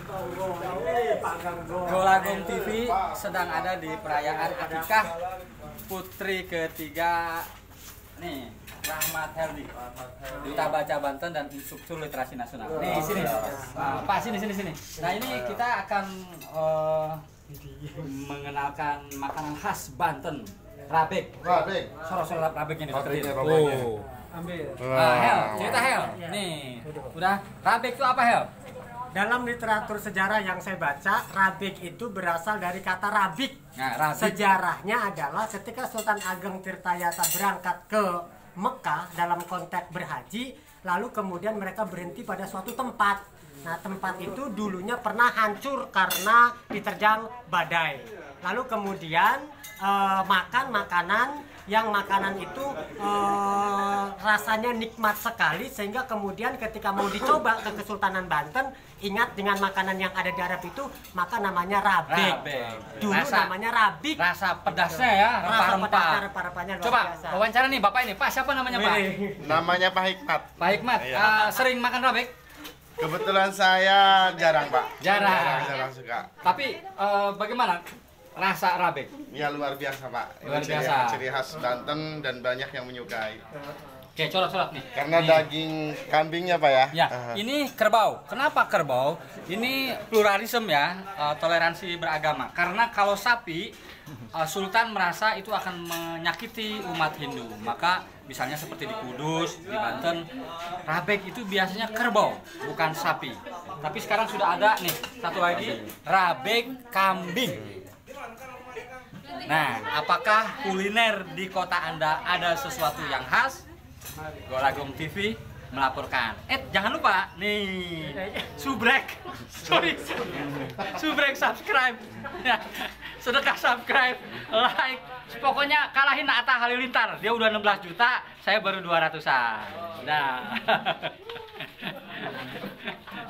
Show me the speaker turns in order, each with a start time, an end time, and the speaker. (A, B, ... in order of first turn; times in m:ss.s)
0:00.2-0:02.5 A
0:01.8-0:05.1 B
0:02.9-0:03.2 C
0:05.7-0:07.5 B
0:08.2-0:09.7 B
0:10.4-0:17.2 B
0:12.9-0:13.7 A
0:17.5-0:18.1 A
0:18.0-0:21.4 B
0:21.4-0:22.0 C
0:22.0-0:24.0 B
0:22.9-0:24.0 C
0:24.8-0:26.0 C
0:24.9-0:28.5 B
0:26.0-0:26.4 A
0:29.1-0:33.6 A
0:33.8-0:34.4 B
0:34.2-1:02.4 A
1:02.1-1:03.5 B
1:03.0-1:07.4 A
1:04.2-1:06.2 B
1:06.8-1:09.1 B
1:08.7-1:09.5 A
1:09.4-1:11.4 C
1:10.6-1:12.3 B
1:13.0-1:16.3 C
1:15.0-1:15.8 B
1:16.4-1:19.1 B
1:19.3-1:23.4 C
1:20.4-1:21.2 B
1:24.2-1:25.5 B
1:24.9-1:27.4 C
1:26.9-1:33.8 B
1:34.3-1:40.3 B
1:40.8-1:47.6 B
1:49.4-1:53.6 B
1:54.5-2:12.9 B